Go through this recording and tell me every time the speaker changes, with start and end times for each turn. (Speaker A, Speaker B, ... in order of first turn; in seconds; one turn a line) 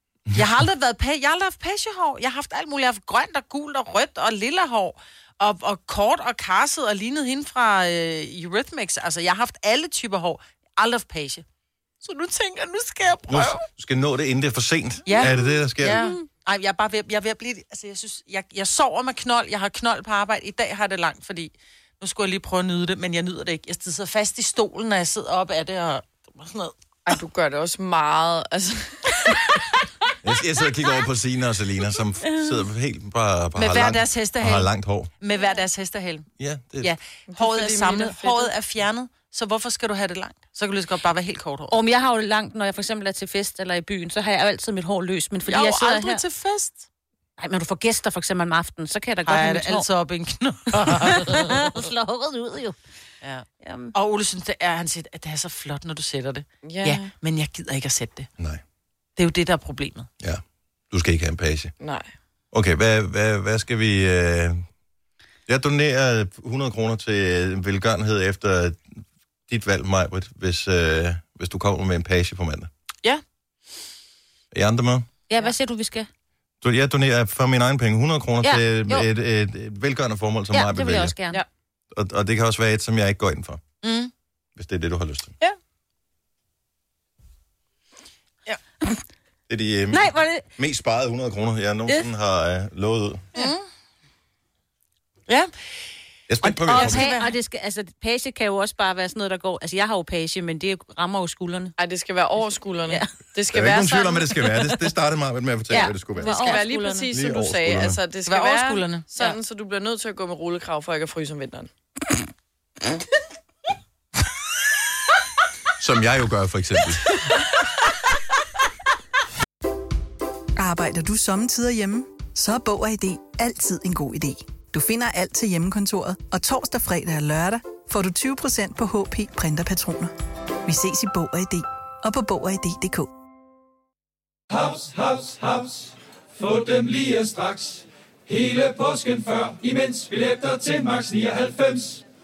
Speaker A: 0.3-11.4
Speaker A: 12.0-13.6
Speaker B: 13.3-16.1
Speaker A: 15.1-26.7
Speaker C: 27.1-29.6
Speaker B: 30.2-35.1
Speaker A: 33.6-34.7
Speaker A: 35.2-36.3
Speaker B: 36.4-37.0
Speaker A: 36.8-41.8
Speaker C: 37.3-38.5
Speaker D: 41.7-46.2
Speaker A: 45.5-46.9
Speaker D: 47.4-49.9
Speaker A: 49.3-51.8
Speaker D: 50.8-52.8
Speaker A: 53.2-58.3
Speaker D: 53.6-53.9
Speaker C: 56.6-57.1
Speaker A: 59.2-60.1
Speaker B: 60.2-61.7
Speaker C: 61.8-62.1
Speaker B: 62.5-64.6
Speaker B: 65.5-72.7
Speaker B: 74.5-75.1
Speaker D: 75.3-76.1
Speaker B: 76.6-81.2
Speaker D: 78.4-79.1
Speaker D: 80.5-81.4
Speaker B: 81.9-83.6
Speaker A: 83.8-84.1
Speaker B: 84.6-85.3
Speaker B: 89.5-93.2
Speaker D: 89.9-90.5
Speaker A: 93.4-93.6
Speaker B: 96.3-97.1
Speaker A: 96.4-97.3
Speaker D: 96.7-101.8
Speaker C: 101.8-104.4
Speaker B: 103.5-106.5
Speaker D: 105.7-107.1
Speaker C: 106.2-111.7
Speaker B: 107.1-108.0
Speaker A: 108.3-109.2
Speaker B: 115.8-117.1
Speaker E: 120.6-130.1
Speaker E: 130.7-133.1
Speaker F: 134.5-142.0